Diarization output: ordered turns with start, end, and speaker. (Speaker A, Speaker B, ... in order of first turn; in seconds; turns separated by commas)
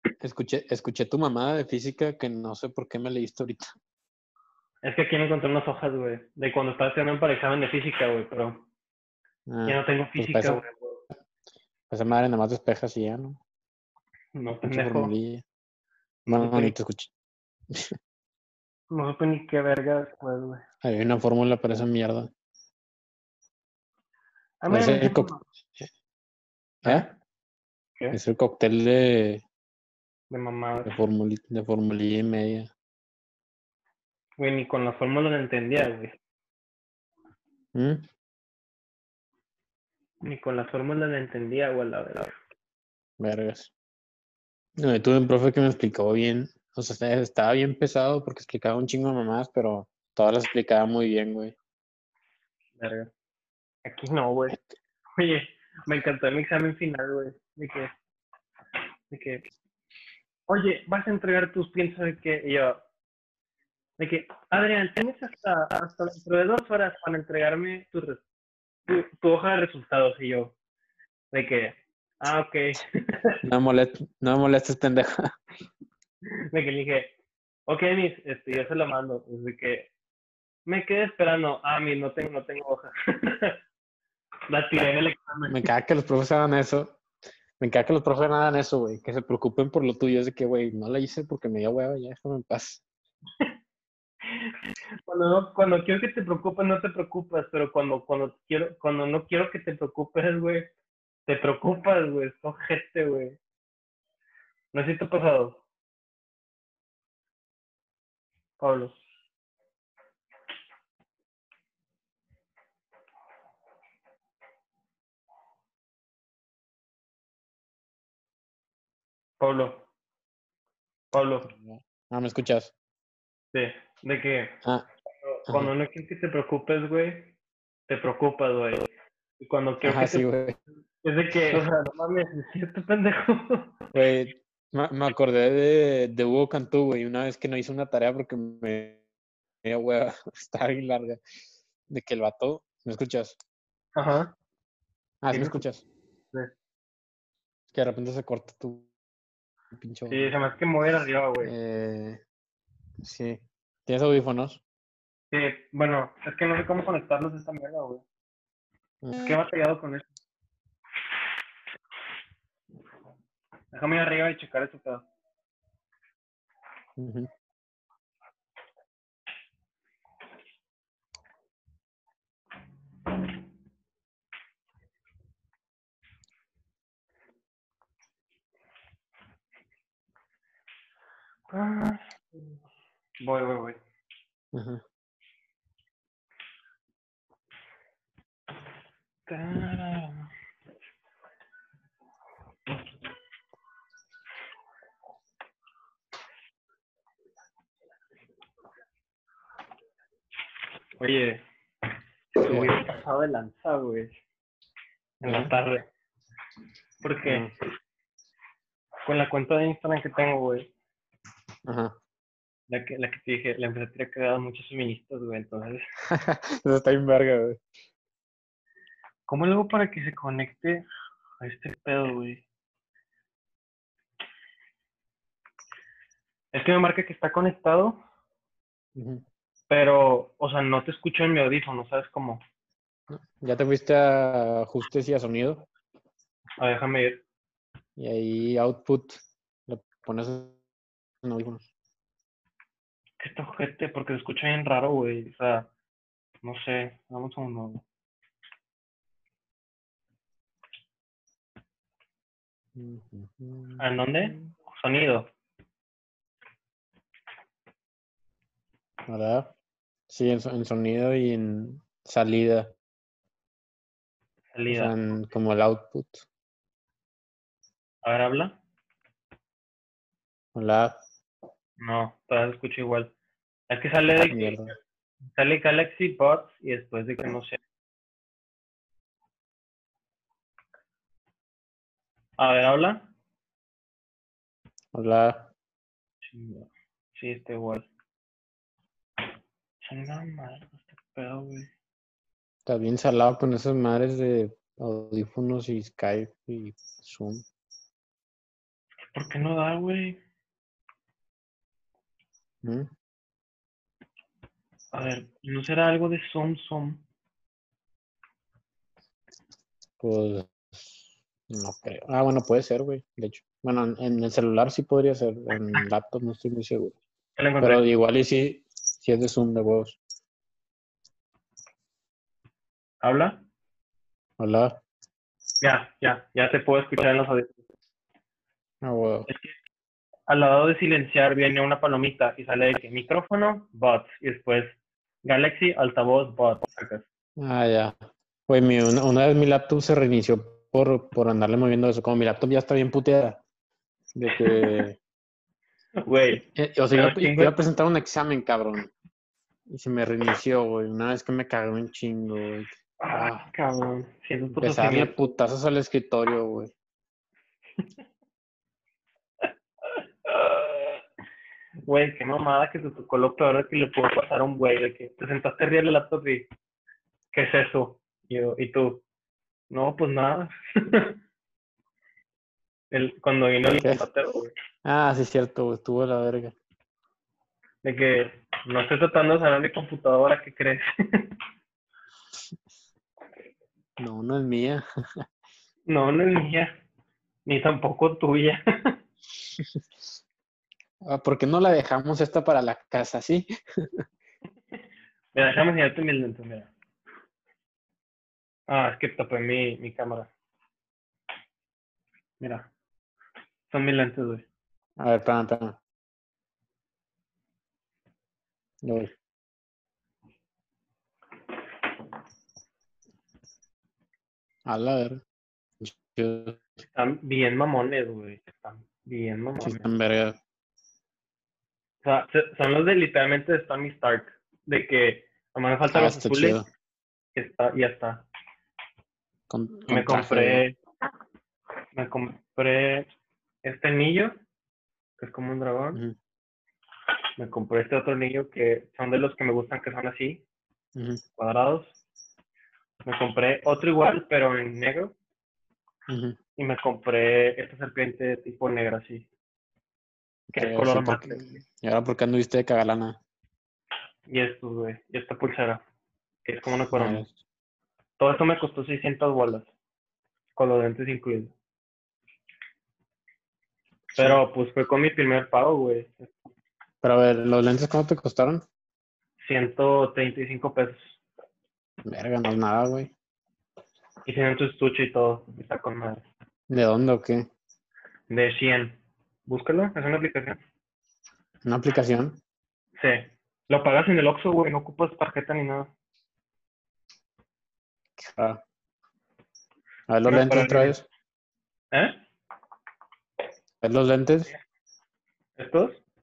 Speaker A: 0.2-3.7, Speaker B: 4.8-8.7, Speaker A: 9.5-10.7, Speaker B: 9.7-11.0, Speaker A: 11.9-13.4, Speaker B: 14.3-15.1, Speaker A: 14.7-15.4, Speaker B: 16.3-16.7, Speaker A: 16.3-17.1, Speaker B: 18.9-20.6, Speaker A: 20.8-22.3, Speaker B: 24.6-25.4, Speaker A: 24.7-25.9, Speaker A: 26.8-27.1, Speaker B: 26.9-27.1, Speaker A: 28.1-29.4, Speaker B: 30.3-31.0, Speaker A: 30.9-32.7, Speaker B: 34.4-36.1, Speaker A: 37.8-38.1, Speaker B: 40.2-42.3, Speaker A: 43.2-43.7, Speaker A: 44.8-51.6, Speaker B: 52.8-53.1, Speaker B: 53.9-54.6, Speaker B: 55.2-57.9, Speaker B: 59.1-59.4, Speaker B: 60.5-62.8, Speaker B: 64.0-68.2, Speaker B: 68.9-70.5, Speaker B: 71.3-73.4, Speaker A: 73.4-75.2, Speaker B: 76.5-77.2, Speaker B: 77.7-79.9, Speaker B: 80.7-83.6, Speaker B: 84.5-85.7, Speaker A: 85.5-87.0, Speaker A: 87.6-92.8, Speaker B: 94.3-94.5, Speaker B: 95.1-100.7, Speaker B: 101.3-103.4, Speaker B: 104.7-105.6, Speaker B: 108.6-109.0, Speaker B: 119.4-119.9, Speaker B: 121.1-121.5, Speaker A: 121.5-122.7, Speaker B: 123.5-124.6, Speaker B: 125.2-127.4, Speaker B: 127.9-128.9, Speaker B: 129.4-130.3, Speaker A: 129.8-130.6, Speaker B: 131.0-133.7, Speaker A: 131.4-131.6, Speaker A: 133.9-139.0, Speaker A: 139.6-143.4, Speaker B: 144.0-144.3, Speaker A: 145.2-145.8, Speaker B: 145.3-145.6, Speaker A: 147.7-148.9, Speaker A: 149.7-150.4, Speaker B: 150.1-151.5, Speaker A: 151.4-152.2, Speaker A: 153.0-154.6, Speaker B: 155.3-158.0, Speaker A: 159.0-159.4, Speaker B: 159.2-160.1, Speaker B: 163.7-165.1, Speaker A: 167.0-167.3, Speaker B: 181.5-182.4, Speaker B: 183.2-183.8, Speaker A: 184.5-184.8, Speaker B: 189.3-190.3, Speaker B: 201.0-201.4, Speaker B: 202.4-204.2, Speaker A: 202.4-202.7, Speaker B: 205.2-205.9, Speaker A: 205.3-205.5, Speaker B: 207.0-207.5, Speaker A: 207.3-207.5, Speaker B: 209.1-210.7, Speaker A: 211.7-211.9, Speaker B: 212.7-215.9, Speaker A: 216.1-217.6, Speaker B: 219.3-220.8, Speaker B: 221.4-222.4, Speaker B: 226.5-228.0, Speaker A: 229.0-229.2, Speaker B: 229.7-232.4, Speaker A: 233.1-235.7, Speaker B: 236.6-237.2, Speaker A: 238.0-240.6, Speaker A: 241.2-241.6, Speaker B: 243.2-245.7, Speaker B: 246.4-247.8, Speaker A: 252.8-254.4, Speaker B: 253.8-255.3, Speaker A: 259.1-259.5, Speaker A: 260.1-262.7, Speaker B: 264.5-264.9, Speaker A: 264.7-266.3, Speaker B: 268.0-268.6, Speaker A: 270.6-271.0, Speaker B: 271.8-273.1, Speaker B: 273.7-274.6, Speaker A: 274.3-274.8, Speaker B: 275.3-277.6, Speaker B: 282.4-283.1, Speaker A: 284.9-285.5, Speaker B: 286.2-287.9, Speaker B: 289.8-291.7, Speaker A: 292.7-297.5, Speaker B: 299.1-300.2, Speaker A: 302.6-302.9, Speaker B: 304.9-307.0, Speaker A: 310.0-311.0, Speaker A: 311.5-317.0, Speaker B: 317.4-317.8, Speaker A: 317.6-320.0, Speaker B: 323.0-323.4, Speaker A: 324.4-324.8, Speaker B: 325.6-327.6, Speaker A: 328.8-329.3, Speaker B: 329.3-329.5, Speaker B: 330.3-337.0, Speaker A: 337.4-338.0, Speaker A: 338.5-343.4, Speaker A: 344.1-345.0, Speaker B: 344.4-344.8, Speaker B: 346.0-347.6, Speaker A: 346.6-348.9, Speaker A: 349.7-353.5, Speaker B: 353.0-355.2, Speaker A: 354.6-356.7, Speaker B: 359.9-361.0, Speaker B: 361.9-366.5, Speaker B: 367.3-369.0, Speaker B: 369.7-371.1, Speaker B: 372.9-374.5, Speaker A: 373.7-374.1, Speaker A: 374.9-376.5, Speaker B: 377.8-381.3, Speaker A: 384.0-384.8, Speaker B: 385.9-386.8, Speaker B: 387.5-388.9, Speaker A: 391.0-394.0, Speaker B: 395.3-396.7, Speaker B: 398.7-400.3, Speaker B: 402.4-402.7, Speaker B: 403.7-404.5, Speaker A: 405.0-405.8, Speaker A: 408.8-409.1, Speaker A: 414.7-415.2, Speaker A: 415.8-416.6, Speaker B: 416.9-419.9, Speaker A: 419.6-420.4, Speaker B: 422.0-426.6, Speaker A: 425.9-426.7, Speaker B: 427.4-428.3, Speaker A: 429.5-430.6, Speaker B: 429.9-430.8, Speaker B: 431.9-433.1, Speaker B: 433.6-434.3, Speaker B: 435.2-436.0, Speaker B: 437.4-440.4, Speaker A: 441.0-441.2, Speaker B: 441.4-442.0, Speaker B: 443.1-445.1, Speaker A: 446.1-446.4, Speaker B: 446.6-449.3, Speaker A: 450.5-453.2, Speaker B: 450.6-451.4, Speaker B: 454.3-455.8, Speaker B: 456.4-457.2, Speaker A: 456.9-457.4, Speaker B: 458.2-459.7, Speaker B: 460.6-461.5, Speaker A: 464.1-464.4, Speaker B: 464.2-466.3, Speaker A: 467.0-468.6, Speaker B: 469.4-471.2, Speaker A: 472.1-473.1, Speaker B: 474.3-476.2, Speaker A: 476.7-477.4, Speaker B: 478.3-480.6, Speaker A: 481.6-482.4, Speaker B: 483.0-485.9, Speaker A: 488.2-488.6, Speaker A: 490.1-491.1, Speaker B: 490.3-491.0, Speaker B: 491.9-492.2, Speaker A: 493.8-494.5, Speaker B: 495.6-496.0